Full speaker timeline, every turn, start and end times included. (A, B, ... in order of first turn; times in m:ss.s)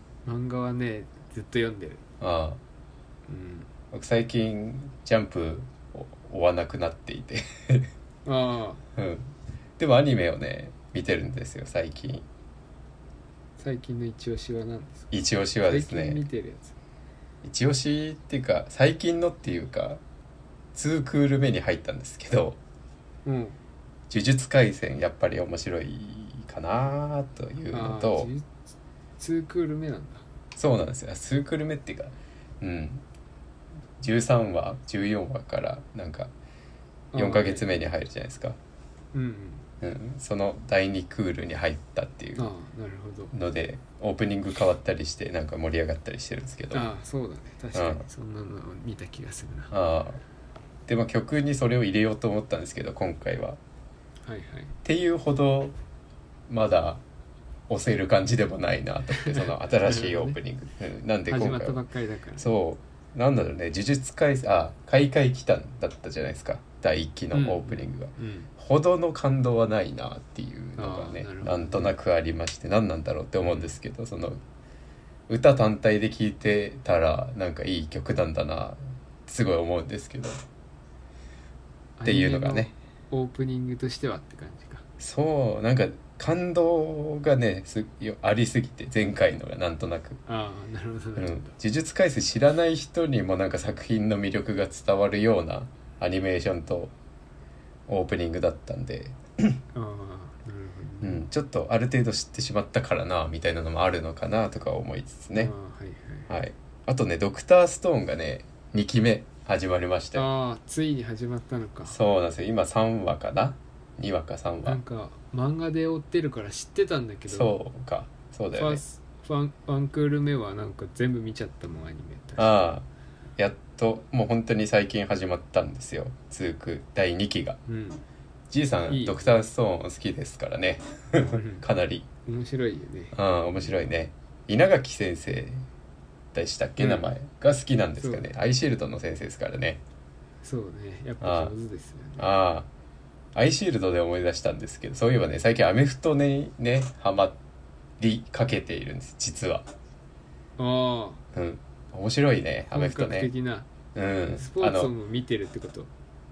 0:00.2-0:02.0 A
0:02.2-0:02.6 B
0:03.3-0:03.7 A
0:03.9-0:07.9 B
0:08.2-0:08.8 A
0:09.0-0:12.2 B
0:13.6-0:15.1 A
0:15.1-0:16.2 B
0:15.6-0:16.8 A
0:17.4-0:20.0 B
0:20.7-0:22.6 B
0:23.2-0:23.6 A
0:24.1-0:28.3 B
0:27.7-0:30.2 A
0:30.6-0:33.0 B
0:34.0-0:36.3 B
0:37.1-0:37.7 A
0:37.1-0:38.6 B
0:39.1-0:39.6 A
0:39.8-0:42.5 B
0:42.4-0:43.3 A
0:43.3-0:46.9 B
0:46.7-0:49.7 A
0:47.7-0:48.0 B
0:49.7-0:50.2 B
0:50.9-0:53.6 B
0:54.2-0:54.7 A
0:54.8-0:55.7 B
0:56.5-0:57.0 B
0:57.7-1:01.8 B
0:59.2-1:00.4 A
1:01.3-1:02.5 A
1:02.4-1:14.4 B
1:07.3-1:08.5 A
1:10.8-1:11.9 A
1:13.4-1:13.7 A
1:15.3-1:20.4 B
1:22.0-1:24.8 A
1:22.0-1:22.7 B
1:25.0-1:30.2 B
1:30.2-1:31.5 A
1:31.2-1:36.9 B
1:37.9-1:39.6 B
1:39.7-1:41.2 A
1:41.0-1:45.5 B
1:45.3-1:46.3 A
1:46.3-1:50.3 B
1:50.1-1:52.0 A
1:51.9-1:54.8 B
1:54.6-1:57.6 A
1:57.3-1:58.8 B
1:58.5-2:02.6 A
2:02.4-2:02.8 B
2:03.4-2:07.6 B
2:07.6-2:08.0 A
2:08.5-2:12.0 B
2:08.9-2:09.4 A
2:11.2-2:11.6 A
2:12.2-2:13.8 A
2:13.1-2:15.6 B
2:16.3-2:19.8 B
2:16.8-2:17.1 A
2:18.0-2:18.3 A
2:20.4-2:22.3 A
2:21.2-2:21.5 B
2:22.2-2:22.7 B
2:23.3-2:27.4 B
2:28.0-2:29.7 B
2:30.6-2:31.2 A
2:31.3-2:33.3 B
2:32.7-2:33.7 A
2:33.9-2:34.9 B
2:34.4-2:35.9 A